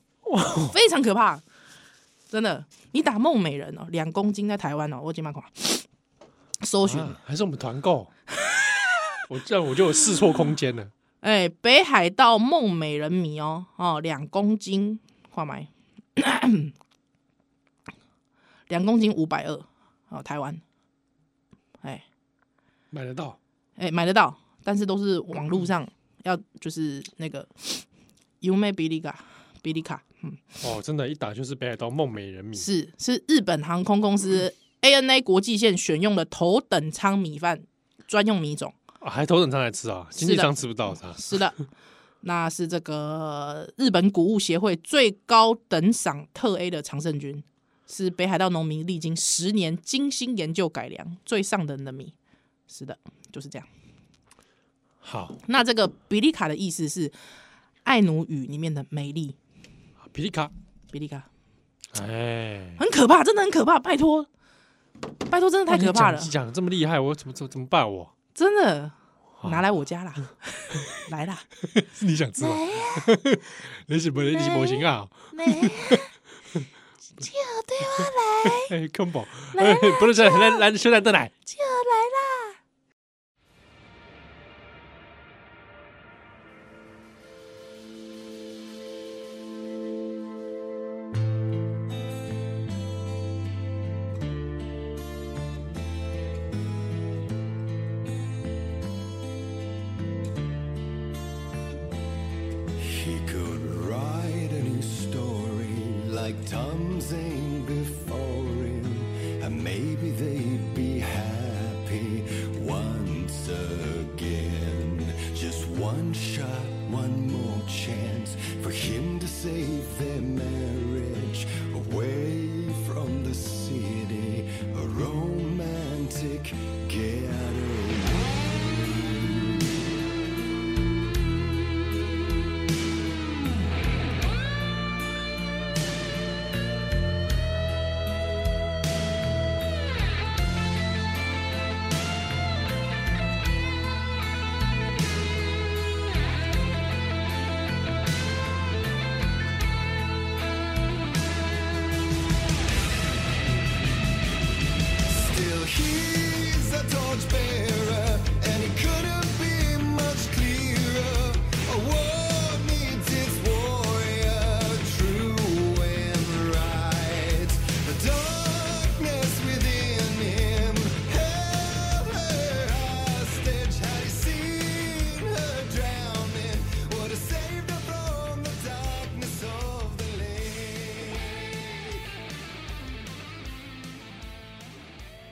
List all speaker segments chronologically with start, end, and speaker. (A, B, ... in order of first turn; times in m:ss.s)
0:00.2-0:00.8 A
0:00.7-0:01.4 B
0:02.3-0:05.8 B
0:06.6-0:07.2 B
0:06.8-0:08.1 A
0:09.3-0:10.9 A
0:11.2-0:16.7 B
0:18.7-0:20.6 B
0:22.9-0:23.4 A
0:23.8-0:27.8 B
0:28.4-0:30.4 B
0:30.6-0:32.7 A
0:32.6-0:38.8 B
0:39.0-0:41.2 A
0:40.2-0:40.5 B
0:41.0-0:41.6 B
0:42.2-0:52.1 B
0:52.7-0:53.7 B
0:55.0-0:55.4 A
0:55.4-0:57.2 B
0:57.8-0:59.4 B
1:00.0-1:00.5 A
1:00.9-1:01.3 B
1:01.9-1:02.8 A
1:02.8-1:04.3 B
1:05.3-1:06.3 B
1:05.7-1:08.1 A
1:08.3-1:11.4 B
1:11.6-1:16.6 A
1:12.4-1:13.1 B
1:14.2-1:16.1 B
1:17.2-1:18.7 B
1:18.0-1:21.3 A
1:19.5-1:20.6 B
1:21.4-1:22.6 B
1:42.8-2:09.6 C
2:35.0-3:01.9 C